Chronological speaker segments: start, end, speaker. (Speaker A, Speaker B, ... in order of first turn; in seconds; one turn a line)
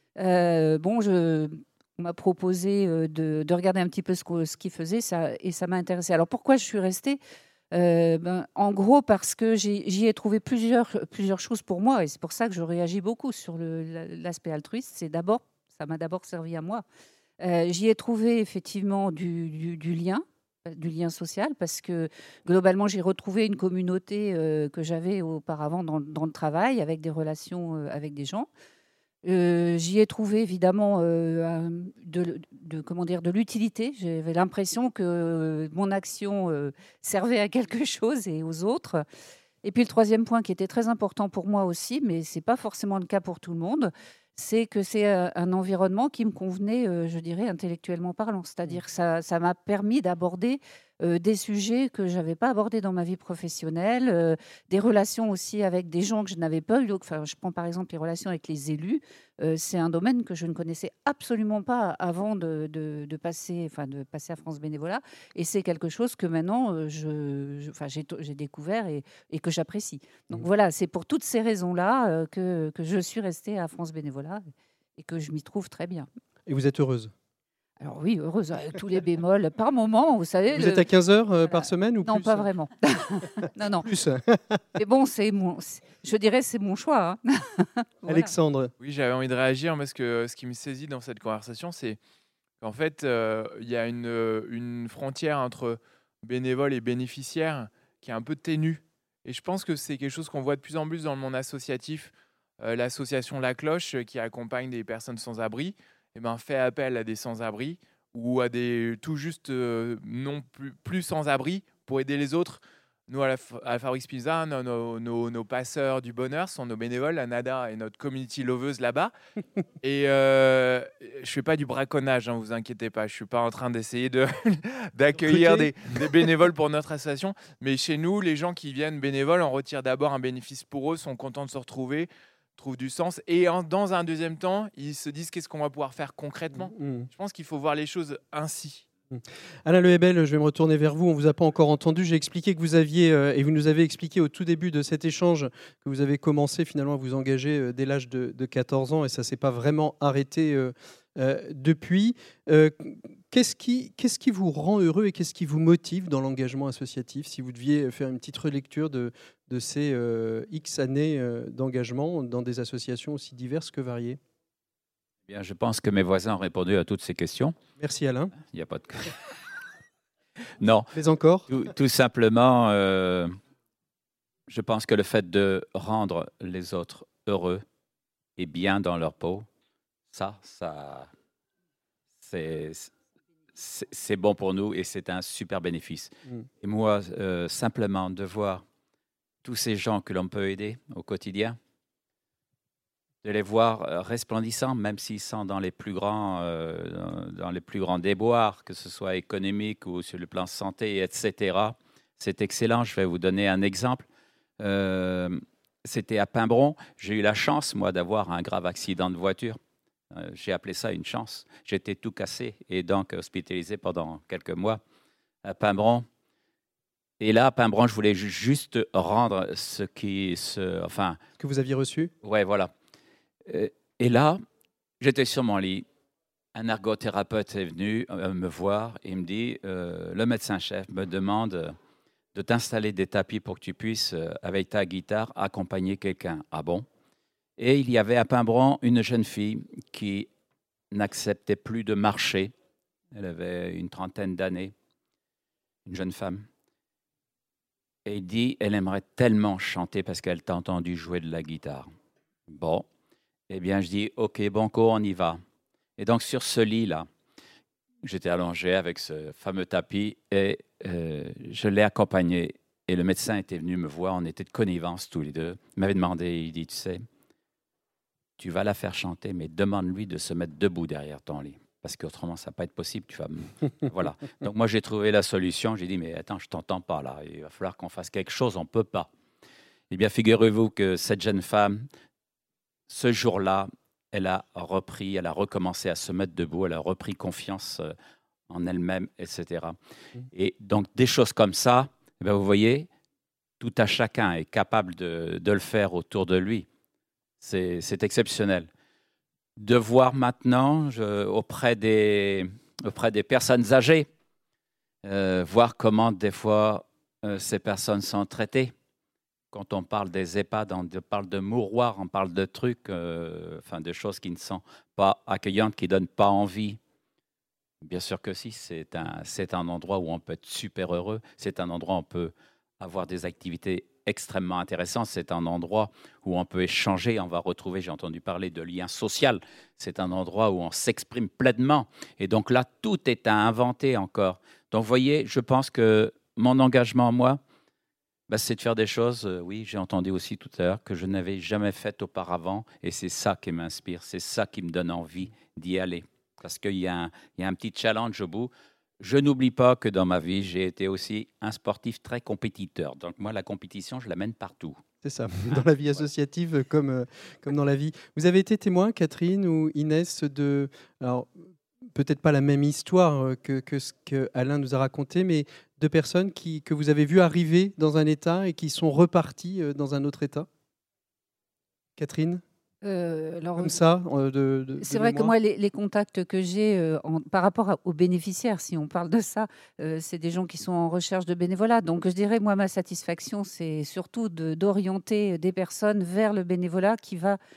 Speaker A: 0.2-7.2
Speaker A: 7.7-16.8
Speaker A: 17.4-28.5
Speaker A: 29.2-39.0
Speaker A: 39.6-74.4
Speaker A: 75.0-76.1
Speaker B: 76.5-77.1
Speaker A: 77.8-80.8
Speaker B: 80.5-82.5
Speaker A: 81.4-83.9
Speaker B: 83.8-84.6
Speaker A: 84.8-88.3
Speaker B: 88.1-88.7
Speaker C: 88.8-92.0
Speaker C: 92.6-119.1
Speaker C: 119.8-138.8
Speaker B: 125.2-125.7
Speaker B: 136.5-137.1
Speaker B: 139.1-164.2
Speaker D: 165.3-167.6
Speaker B: 167.8-168.3
Speaker D: 168.4-169.2
Speaker D: 170.6-170.9
Speaker B: 170.9-171.5
Speaker D: 171.5-173.3
Speaker D: 174.5-177.6
Speaker D: 178.4-179.5
Speaker D: 180.1-181.1
Speaker D: 182.2-182.9
Speaker D: 183.6-188.6
Speaker D: 189.4-191.6
Speaker D: 193.2-204.1
Speaker D: 204.6-209.6
Speaker D: 210.1-214.8
Speaker D: 215.4-216.1
Speaker D: 217.2-221.2
Speaker B: 221.4-222.1
Speaker D: 222.2-222.7
Speaker D: 223.5-224.4
Speaker D: 225.0-225.9
Speaker D: 226.6-231.8
Speaker D: 232.3-236.9
Speaker D: 237.6-240.3
Speaker D: 240.9-242.5
Speaker D: 243.1-244.7
Speaker D: 245.9-246.5
Speaker D: 248.1-251.9
Speaker D: 252.5-252.9
Speaker D: 253.5-255.4
Speaker D: 256.0-257.1
Speaker D: 258.0-267.1
Speaker D: 268.4-279.1
Speaker D: 279.9-281.9
Speaker D: 282.9-287.9
Speaker D: 288.5-289.8
Speaker D: 290.3-292.9
Speaker D: 293.6-296.7
Speaker D: 297.4-298.7
Speaker D: 299.6-304.1
Speaker D: 305.1-308.7
Speaker D: 309.5-316.8
Speaker D: 317.8-337.4
Speaker D: 338.3-354.8
Speaker B: 355.0-361.4
Speaker D: 355.5-356.0
Speaker B: 361.9-370.5
Speaker B: 372.0-372.4
Speaker A: 372.8-373.8
Speaker B: 373.6-375.3
Speaker A: 374.8-387.4